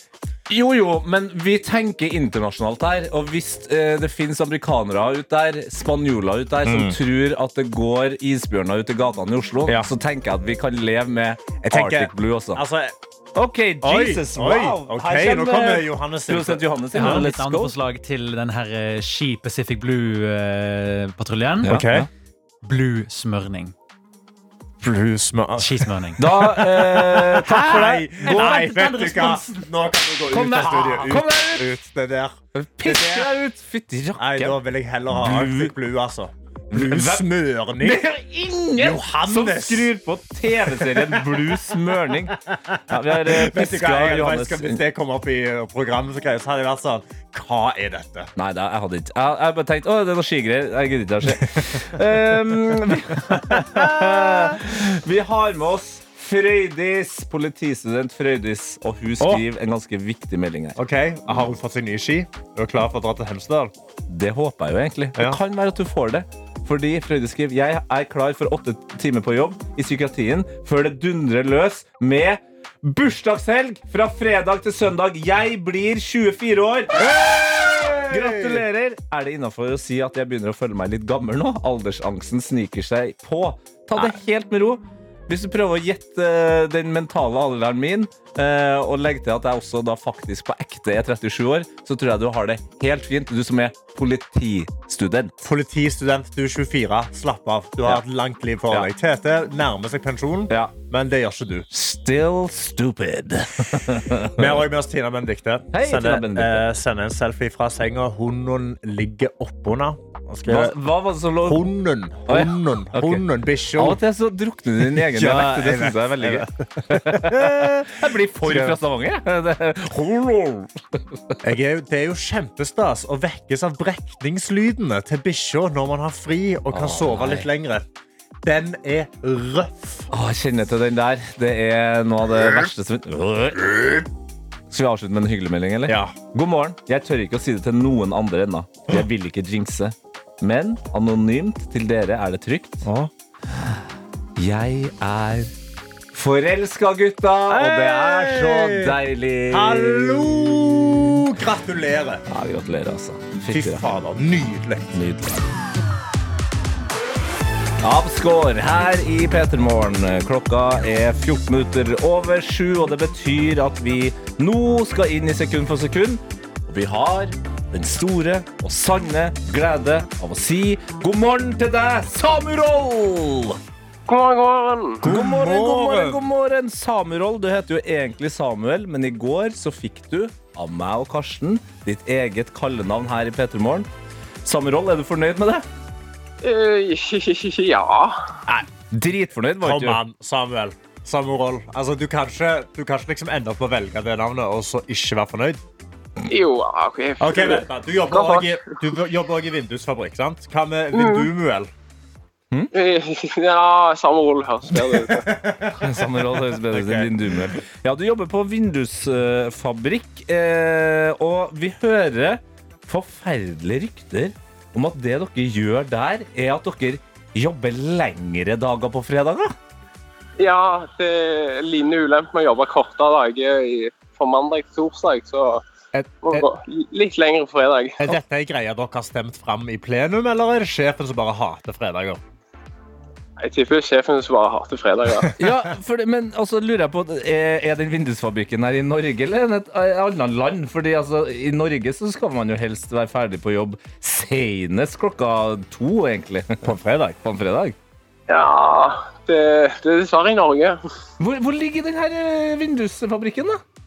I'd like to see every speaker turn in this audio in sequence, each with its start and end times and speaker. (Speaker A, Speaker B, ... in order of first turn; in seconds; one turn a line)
Speaker A: 0.5-12.6
Speaker B: 6.6-7.0
Speaker B: 11.6-12.9
Speaker A: 13.3-17.7
Speaker B: 13.8-17.3
Speaker C: 16.9-21.8
Speaker B: 21.6-22.1
Speaker A: 21.6-22.1
Speaker C: 22.6-23.7
Speaker B: 24.8-33.3
Speaker C: 25.6-26.2
Speaker A: 26.2-29.6
Speaker A: 30.3-31.7
Speaker A: 32.5-35.7
Speaker B: 34.2-38.0
Speaker A: 36.7-42.4
Speaker B: 38.8-39.9
Speaker B: 40.6-41.6
Speaker B: 42.3-48.3
Speaker A: 42.9-44.8
Speaker A: 48.4-60.8
Speaker B: 53.3-54.6
Speaker B: 59.2-59.5
Speaker B: 60.8-63.7
Speaker A: 64.1-77.0
Speaker B: 77.0-78.6
Speaker A: 78.0-95.5
Speaker B: 95.4-101.7
Speaker A: 101.7-104.6
Speaker B: 104.3-110.8
Speaker A: 105.7-106.7
Speaker A: 110.5-111.6
Speaker B: 111.4-114.0
Speaker A: 112.2-113.2
Speaker A: 113.8-121.4
Speaker B: 114.8-118.8
Speaker B: 121.4-127.8
Speaker A: 126.7-127.5
Speaker B: 128.4-130.1
Speaker A: 130.1-133.8
Speaker A: 134.7-142.8
Speaker B: 135.9-136.1
Speaker B: 142.8-143.1
Speaker A: 144.4-145.5
Speaker A: 146.1-150.2
Speaker B: 147.5-152.2
Speaker A: 152.3-153.8
Speaker B: 153.4-154.9
Speaker A: 154.9-155.4
Speaker A: 157.8-173.6
Speaker D: 174.1-175.0
Speaker B: 175.0-176.2
Speaker A: 175.0-183.9
Speaker A: 184.4-185.7
Speaker D: 186.4-188.3
Speaker A: 188.9-190.0
Speaker B: 189.6-195.6
Speaker D: 196.3-198.6
Speaker B: 197.2-201.7
Speaker D: 200.9-201.2
Speaker D: 202.7-205.3
Speaker B: 205.1-207.5
Speaker A: 205.8-219.5
Speaker D: 220.4-225.6
Speaker B: 225.9-226.5
Speaker D: 226.2-228.1
Speaker B: 228.0-232.2
Speaker D: 233.4-235.3
Speaker A: 235.4-246.6
Speaker B: 246.6-247.2
Speaker A: 247.2-247.8
Speaker D: 248.3-250.8
Speaker A: 251.2-253.6